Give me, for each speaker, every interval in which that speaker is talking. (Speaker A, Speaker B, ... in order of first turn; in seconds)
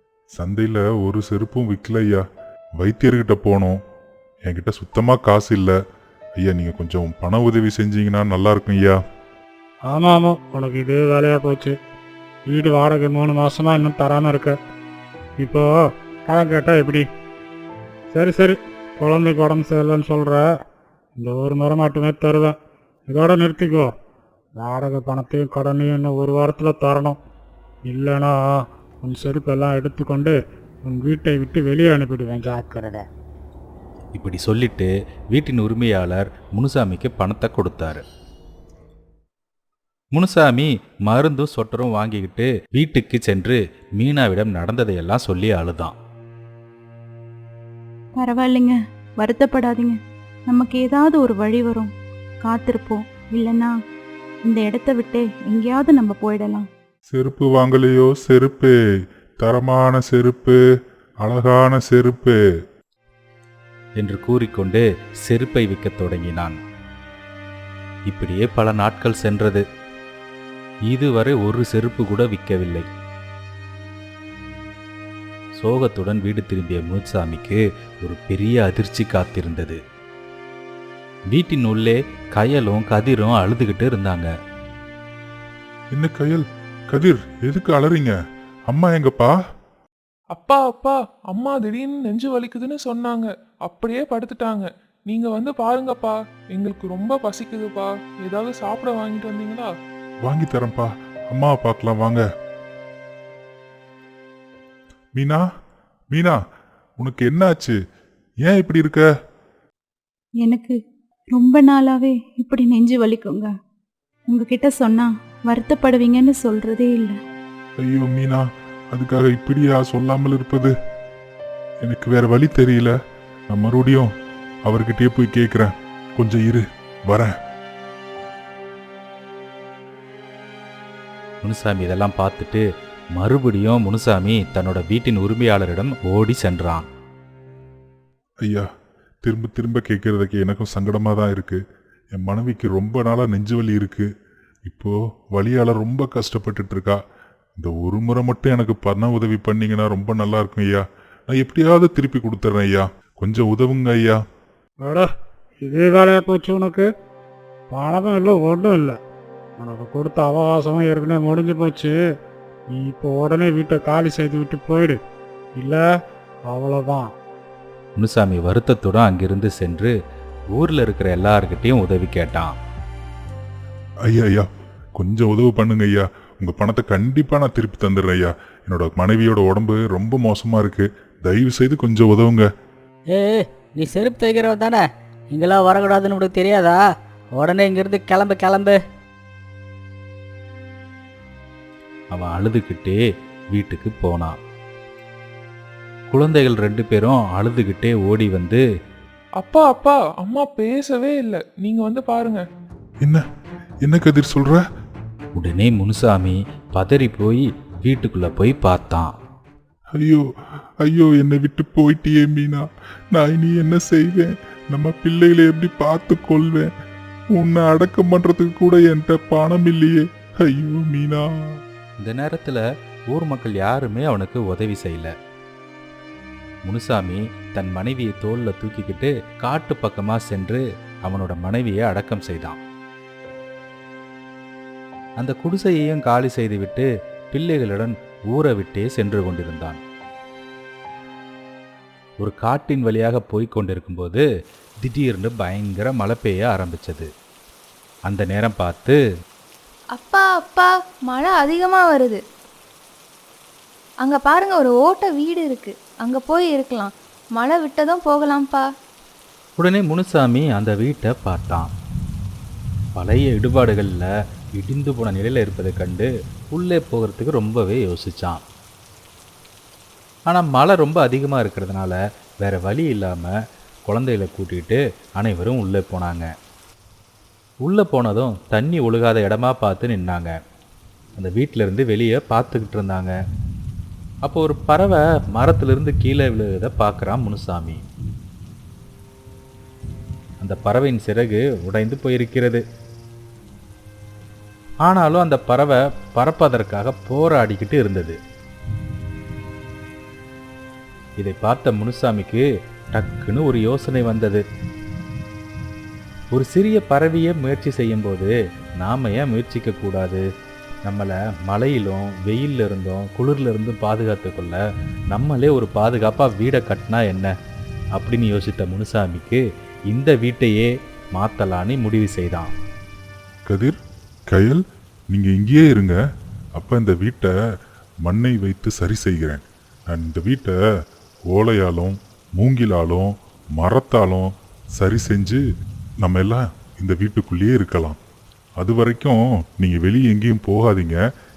Speaker A: 0.3-2.2, 2.8-3.8, 4.5-5.8, 6.4-9.0, 57.1-58.7, 59.4-60.6, 61.2-62.4, 85.9-88.2, 88.7-89.4, 100.2-102.2, 105.2-105.4, 106.1-106.4, 107.0-107.8, 108.4-109.0, 117.8-120.7, 121.8-122.9, 123.5-124.1, 124.7-127.3, 139.2-141.6, 142.1-144.1, 144.7-147.0, 147.6-154.2, 174.1-182.5, 203.8-204.6, 210.0-210.2, 210.8-216.7, 217.3-221.3, 323.5-323.8, 324.3-326.0, 326.6-327.3, 328.0-330.6, 331.3-335.4, 336.0-338.0, 338.6-341.0
Speaker B: 9.9-11.8, 12.5-14.6, 15.4-15.7, 16.3-17.0, 18.1-20.4, 21.2-22.6, 23.1-23.9, 24.6-27.2, 27.9-33.0, 154.8-155.1, 155.6-156.9, 157.7-159.0, 159.6-161.9, 162.7-165.0, 165.6-165.8, 166.5-167.1
Speaker C: 34.1-38.0, 40.1-45.9, 64.0-66.6, 68.1-69.6, 70.9-72.9, 75.6-79.8, 81.3-84.3, 131.4-132.6, 133.2-136.9, 168.0-169.9, 170.5-172.5, 192.1-193.0, 193.5-194.3, 196.1-198.6, 205.3-209.1, 222.0-225.1, 226.7-232.6, 235.2-239.8, 242.2-244.2, 244.8-247.1, 248.1-249.0, 259.6-261.7, 263.0-268.4, 270.3-273.3, 273.9-276.3, 277.6-280.3, 281.2-283.1, 284.2-287.8, 290.4-292.6, 294.8-298.2, 301.2-304.4, 306.3-310.2, 310.8-314.6, 315.1-317.3, 318.0-319.4, 319.9-322.5
Speaker D: 48.2-50.0, 50.5-51.9, 52.4-53.7, 54.5-56.7, 110.4-110.8, 111.3-113.5, 114.3-117.2
Speaker E: 90.3-99.7, 199.4-202.4
Speaker F: 183.1-184.8, 185.3-186.8, 187.4-188.8
Speaker G: 249.9-252.2, 254.0-258.7